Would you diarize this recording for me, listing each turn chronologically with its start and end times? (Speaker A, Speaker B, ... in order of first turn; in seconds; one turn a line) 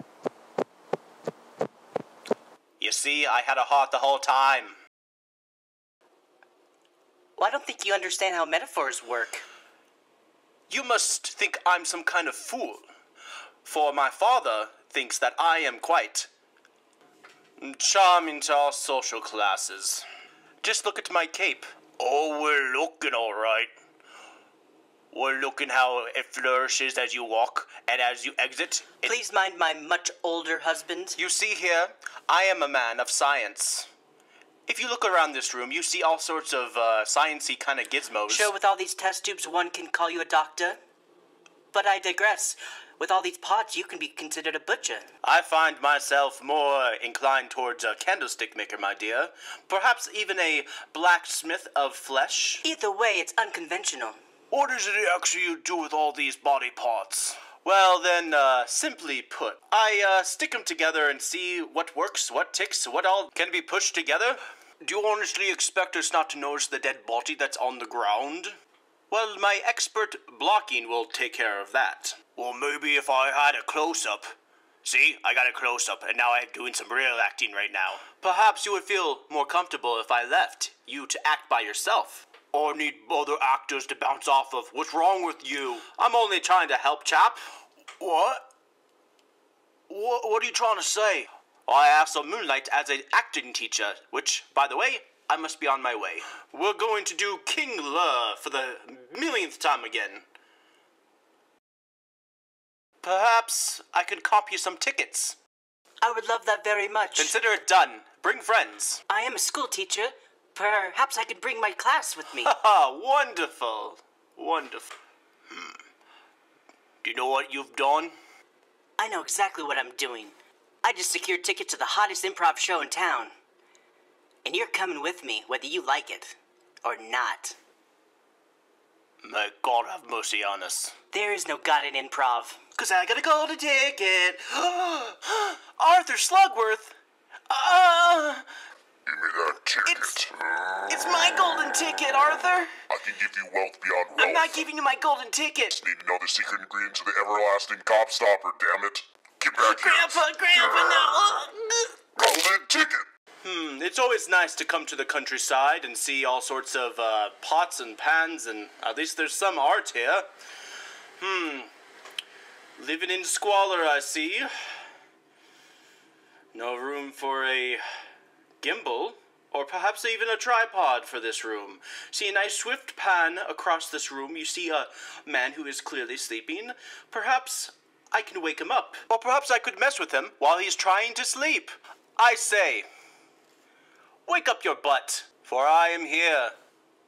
Speaker A: 2.8-4.8
Speaker B: 7.4-9.4
Speaker A: 10.7-12.8
Speaker A: 13.6-16.3
Speaker A: 17.6-20.1
Speaker A: 20.6-23.7
Speaker A: 25.1-29.1
Speaker B: 29.0-31.2
Speaker A: 31.2-33.9
Speaker A: 34.7-38.5
Speaker B: 38.3-40.8
Speaker B: 41.7-45.0
Speaker A: 45.2-52.6
Speaker B: 52.6-54.2
Speaker A: 54.5-68.6
Speaker A: 69.1-87.4
Speaker A: 88.0-88.5
Speaker A: 89.9-100.2
Speaker A: 103.0-105.4
Speaker B: 106.0-107.3
Speaker A: 107.2-109.0
Speaker B: 109.1-112.5
Speaker A: 112.4-114.9
Speaker A: 115.5-115.8
Speaker A: 117.0-118.1
Speaker B: 119.0-123.3
Speaker B: 124.4-127.6
Speaker A: 129.2-130.9
Speaker B: 131.1-132.6
Speaker A: 132.8-136.9
Speaker A: 137.5-138.4
Speaker C: 139.1-140.3
Speaker A: 139.8-140.3
Speaker A: 140.8-142.7
Speaker C: 142.9-144.6
Speaker A: 144.2-145.8
Speaker C: 145.7-150.2
Speaker A: 149.5-152.4
Speaker C: 152.2-153.0
Speaker A: 153.4-160.3
Speaker A: 161.2-161.7
Speaker A: 162.8-164.5
Speaker A: 166.5-167.8
Speaker A: 168.6-182.9
Speaker A: 184.2-186.5